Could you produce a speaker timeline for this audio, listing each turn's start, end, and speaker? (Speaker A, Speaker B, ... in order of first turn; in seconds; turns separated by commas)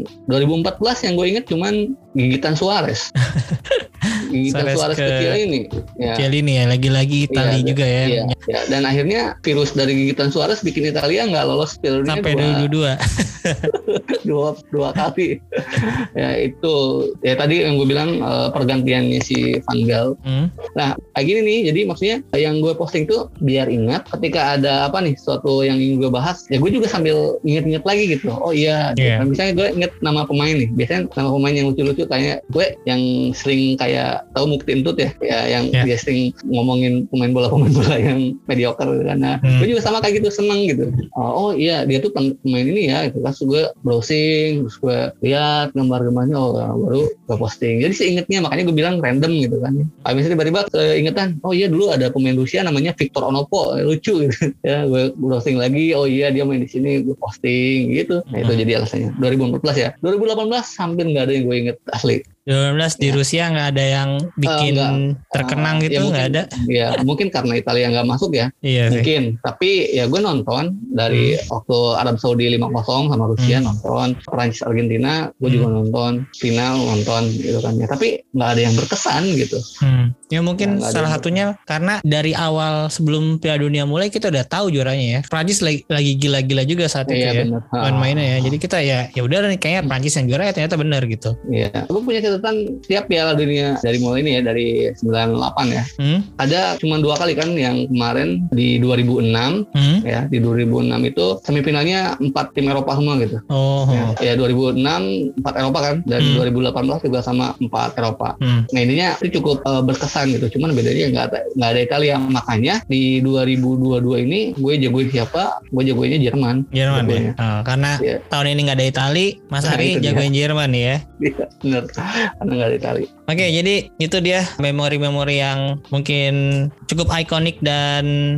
Speaker A: 0.2-3.1, Speaker B: 3.2-5.4, Speaker A: 4.3-6.2, Speaker B: 6.1-8.3, Speaker A: 7.3-12.7, Speaker B: 12.1-13.7, Speaker A: 13.7-20.1, Speaker B: 20.2-20.5, Speaker A: 20.8-62.2, Speaker B: 29.0-29.2, Speaker B: 39.4-39.7, Speaker B: 58.3-58.6, Speaker B: 62.5-66.5, Speaker A: 64.5-79.6, Speaker B: 68.6-69.1, Speaker B: 71.1-71.4, Speaker B: 73.4-73.7, Speaker B: 75.4-75.7, Speaker B: 79.8-91.3, Speaker A: 80.6-81.4, Speaker A: 87.1-88.5, Speaker A: 91.5-95.9, Speaker B: 96.0-96.3, Speaker A: 96.4-117.3, Speaker B: 99.7-100.0, Speaker B: 103.5-104.2, Speaker B: 106.2-106.5, Speaker B: 116.7-121.0, Speaker A: 119.6-120.3, Speaker A: 121.2-123.1, Speaker B: 123.3-128.1